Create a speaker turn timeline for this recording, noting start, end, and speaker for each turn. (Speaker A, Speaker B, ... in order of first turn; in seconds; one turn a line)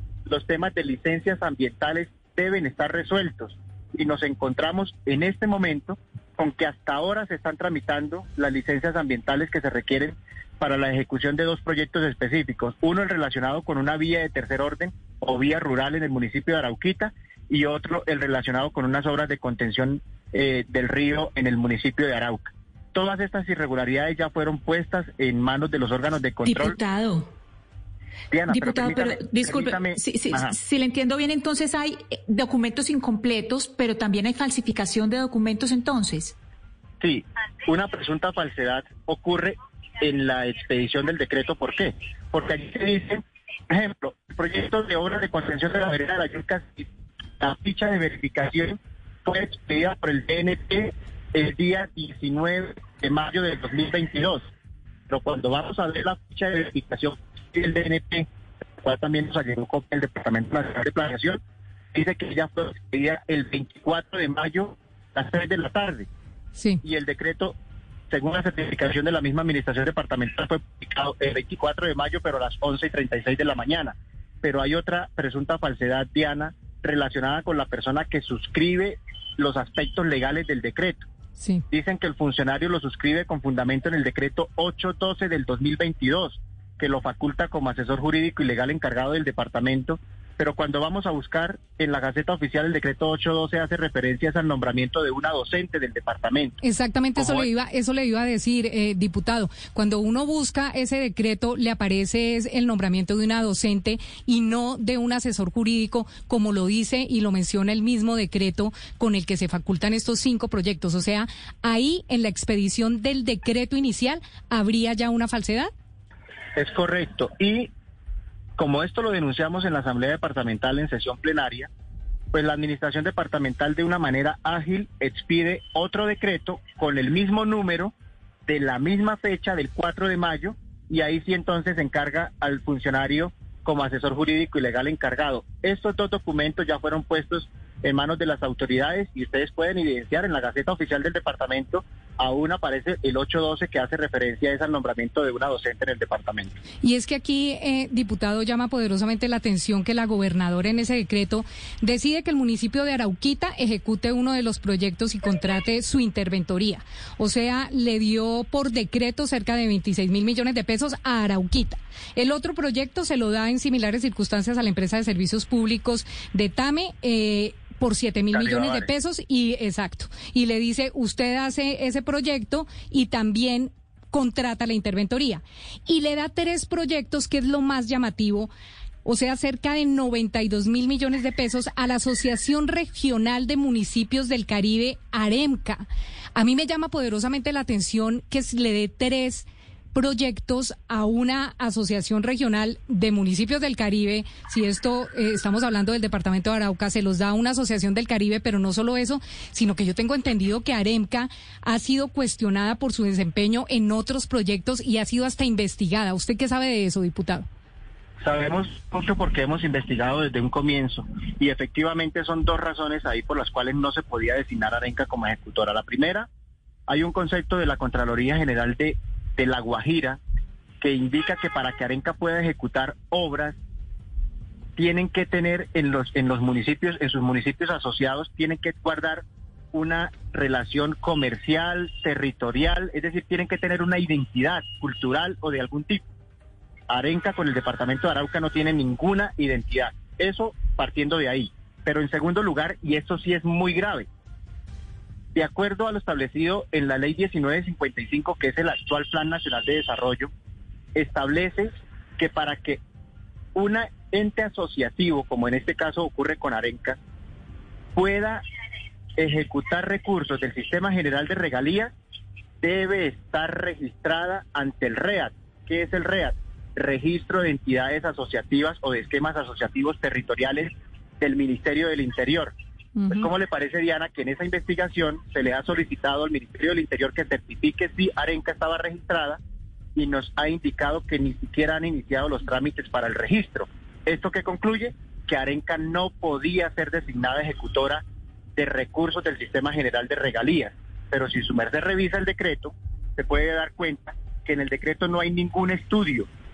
Speaker A: 0.3-26.8
Speaker B: 26.4-27.3
Speaker A: 28.3-30.6
Speaker B: 28.5-36.3
Speaker A: 37.0-46.9
Speaker A: 47.4-54.5
Speaker A: 55.1-58.3
Speaker A: 58.8-61.4
Speaker A: 61.9-66.1
Speaker C: 66.5-66.8
Speaker A: 66.8-67.5
Speaker A: 68.1-81.0
Speaker C: 81.4-81.6
Speaker A: 81.7-96.6
Speaker C: 96.6-115.7
Speaker A: 97.2-97.5
Speaker A: 116.5-117.7
Speaker A: 118.6-121.7
Speaker A: 122.3-127.9
Speaker A: 128.5-146.6
Speaker C: 146.8-178.5
Speaker A: 168.3-168.8
Speaker C: 179.0-207.4
Speaker A: 208.2-216.3
Speaker A: 216.9-220.2
Speaker A: 220.8-223.6
Speaker A: 224.8-236.0
Speaker A: 236.9-244.1
Speaker A: 245.3-250.3
Speaker A: 250.9-252.8
Speaker A: 253.6-257.0
Speaker A: 257.9-258.4
Speaker A: 259.2-261.9
Speaker A: 262.6-272.5
Speaker C: 273.0-273.3
Speaker A: 273.1-279.4
Speaker A: 279.9-288.0
Speaker A: 288.6-296.3